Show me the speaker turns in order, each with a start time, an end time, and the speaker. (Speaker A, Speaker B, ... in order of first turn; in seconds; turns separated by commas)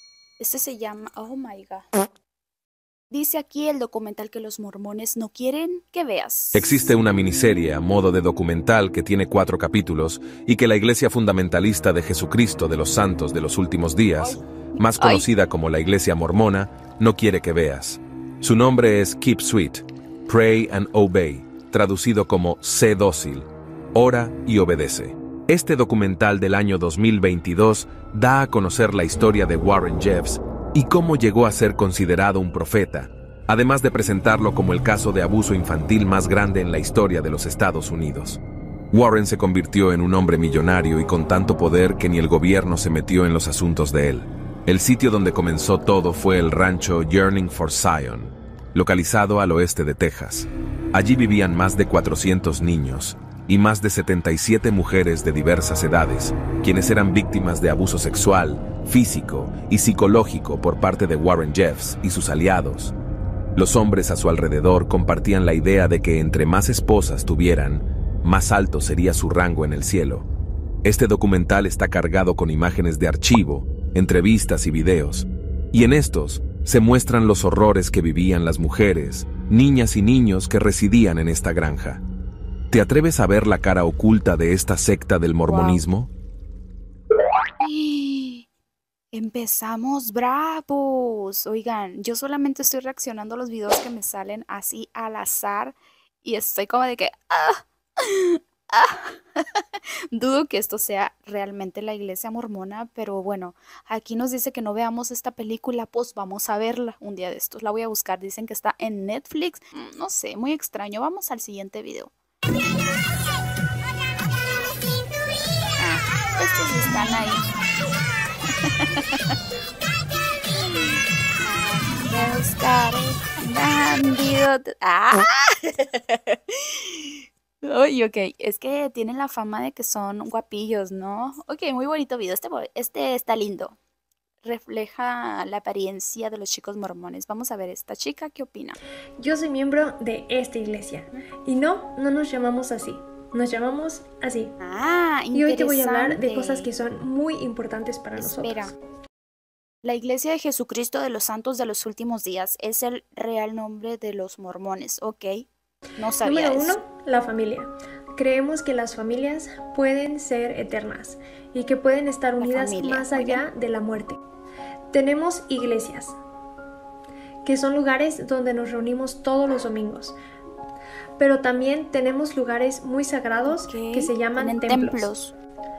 Speaker A: 0.4-1.9, Speaker A: 3.1-6.7, Speaker B: 6.5-38.4, Speaker A: 14.2-15.3, Speaker B: 38.9-62.9, Speaker B: 63.6-70.3, Speaker B: 70.8-82.0, Speaker B: 82.7-86.1, Speaker A: 85.5-85.8, Speaker A: 87.6-88.5, Speaker A: 89.1-112.1, Speaker A: 115.8-117.5, Speaker A: 118.5-119.2, Speaker A: 120.5-133.8, Speaker A: 134.4-138.8, Speaker C: 139.2-144.5, Speaker A: 144.6-146.7, Speaker C: 145.3-148.7, Speaker A: 148.2-148.7, Speaker A: 149.8-155.4, Speaker A: 156.0-156.8, Speaker C: 156.2-164.2, Speaker A: 162.4-163.4, Speaker C: 164.9-166.2, Speaker C: 167.5-170.2, Speaker C: 171.2-175.1, Speaker A: 173.5-175.3